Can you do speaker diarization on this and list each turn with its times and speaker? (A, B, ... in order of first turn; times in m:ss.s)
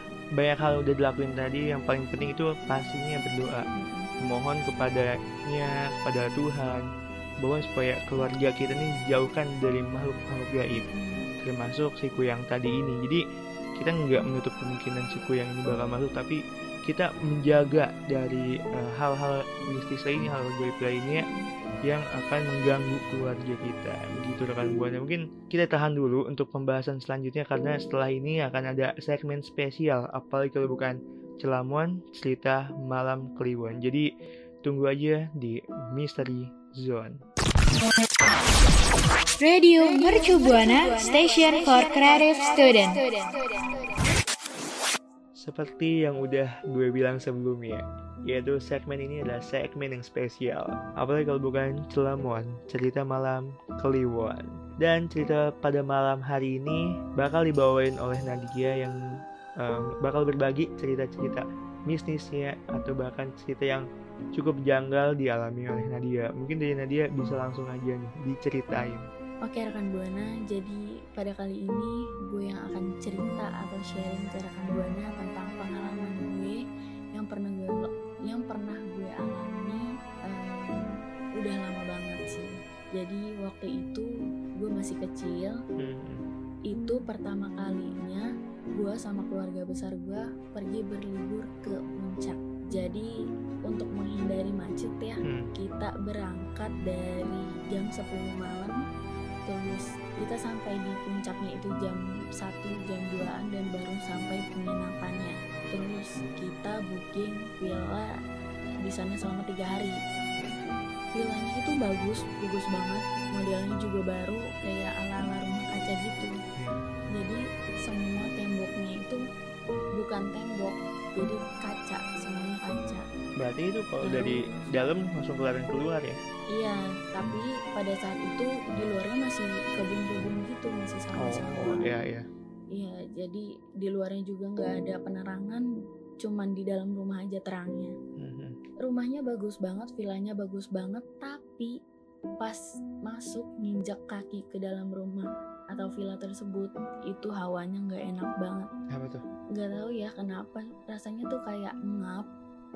0:00.4-0:03.6 A
0:03.8-0:04.1 B
0:04.2-0:06.8 A
0:07.4-0:10.8 A
0:10.7-0:11.3 B
0:11.4-0:13.2 A
0:13.8-0:21.3 A
0:21.9-0:34.1 A
0:34.6-0:37.2 A
0:39.4-0:43.1 C
0:45.4-0:59.0 A
0:59.6-1:09.1 A
1:09.4-1:16.6 B
1:17.2-1:25.6 B
1:25.8-1:26.2 A
1:26.7-1:33.1 B
1:33.7-1:38.8 B
1:39.5-1:48.1 B
1:48.8-1:50.0 B
1:50.4-1:50.8 A
1:51.1-1:56.3 B
1:56.6-1:56.8 A
1:57.1-1:59.2 B
2:00.0-2:03.0 B
2:03.4-2:06.2 A
2:04.0-2:04.6 B
2:06.5-2:11.9 B
2:11.2-2:12.2 A
2:12.7-2:15.6 B
2:16.2-2:17.9 B
2:18.2-2:18.6 A
2:18.8-2:21.7 B
2:22.4-2:28.7 B
2:28.9-2:29.2 A
2:29.6-2:32.3 B